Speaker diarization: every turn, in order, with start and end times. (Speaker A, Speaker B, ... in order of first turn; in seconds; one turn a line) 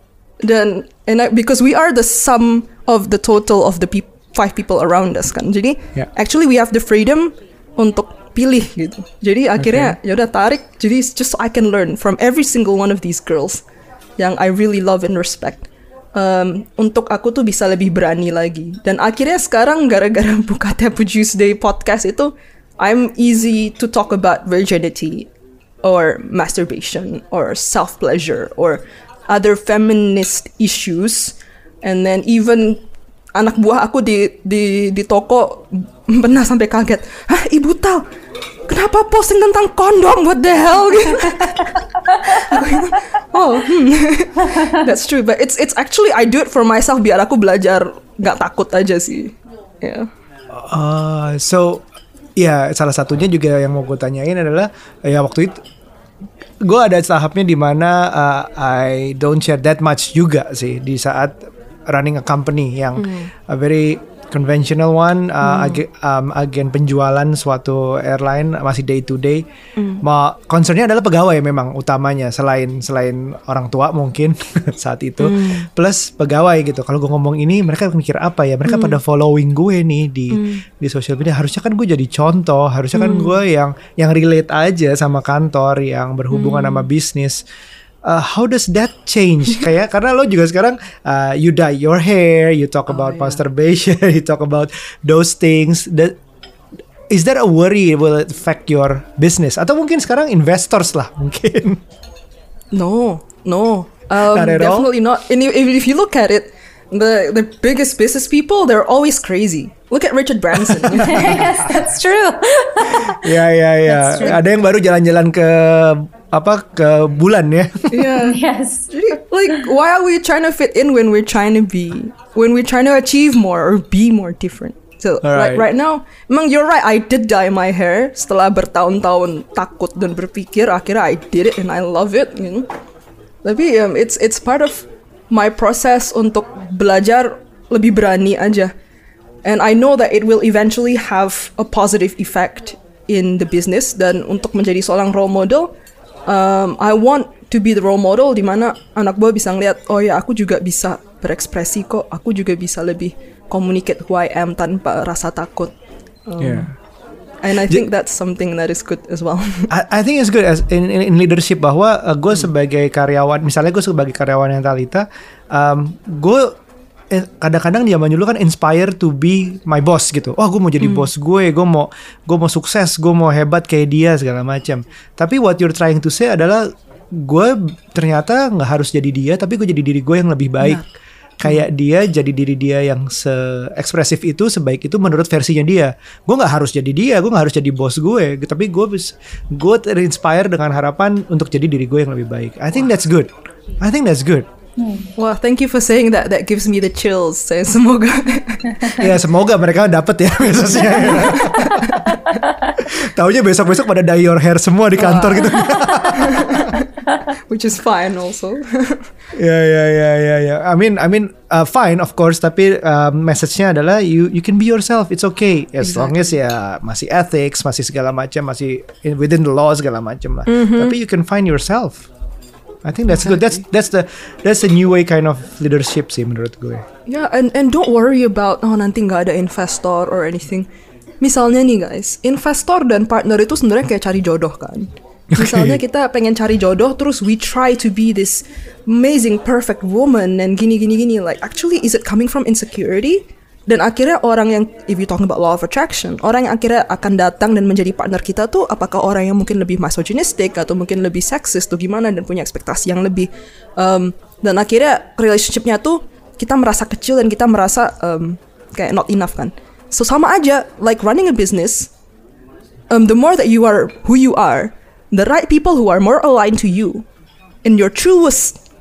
Speaker A: 0.4-13.6
Speaker B: 9.6-10.0
Speaker A: 14.2-25.3
Speaker A: 25.8-32.8
Speaker A: 33.3-38.1
Speaker A: 38.7-50.1
Speaker C: 41.7-43.0
Speaker B: 50.5-51.8
Speaker B: 52.4-55.6
Speaker B: 56.6-69.5
Speaker A: 63.0-63.3
Speaker A: 65.4-65.8
Speaker A: 69.8-70.0
Speaker B: 70.0-87.4
Speaker A: 75.2-75.7
Speaker A: 78.7-79.0
Speaker A: 80.3-80.6
Speaker A: 82.9-83.4
Speaker A: 86.3-86.9
Speaker B: 88.0-96.2
Speaker A: 92.9-93.4
Speaker B: 97.1-101.8
Speaker A: 102.7-111.9
Speaker B: 104.2-104.9
Speaker B: 110.7-111.3
Speaker C: 111.0-113.3
Speaker B: 112.9-118.2
Speaker C: 113.9-114.4
Speaker A: 117.9-118.4
Speaker C: 118.2-118.9
Speaker A: 118.9-132.7
Speaker B: 125.2-125.6
Speaker A: 133.4-138.7
Speaker A: 139.4-145.7
Speaker A: 146.3-155.7
Speaker A: 156.3-156.7
Speaker B: 156.4-156.7
Speaker A: 157.4-159.7
Speaker B: 159.7-166.6
Speaker B: 167.1-180.8
Speaker A: 170.8-171.1
Speaker A: 180.6-180.9
Speaker B: 181.4-194.5
Speaker C: 194.8-195.1
Speaker A: 195.2-199.2
Speaker B: 198.9-202.2
Speaker A: 200.8-202.1
Speaker C: 202.2-202.7
Speaker B: 202.8-206.8
Speaker A: 205.0-209.1
Speaker B: 209.3-222.1
Speaker A: 215.8-216.4
Speaker A: 220.5-220.9
Speaker B: 222.8-226.9
Speaker A: 223.1-223.6
Speaker A: 227.1-230.7
Speaker A: 231.2-261.9
Speaker B: 235.3-235.8
Speaker A: 262.9-267.1
Speaker A: 267.6-268.6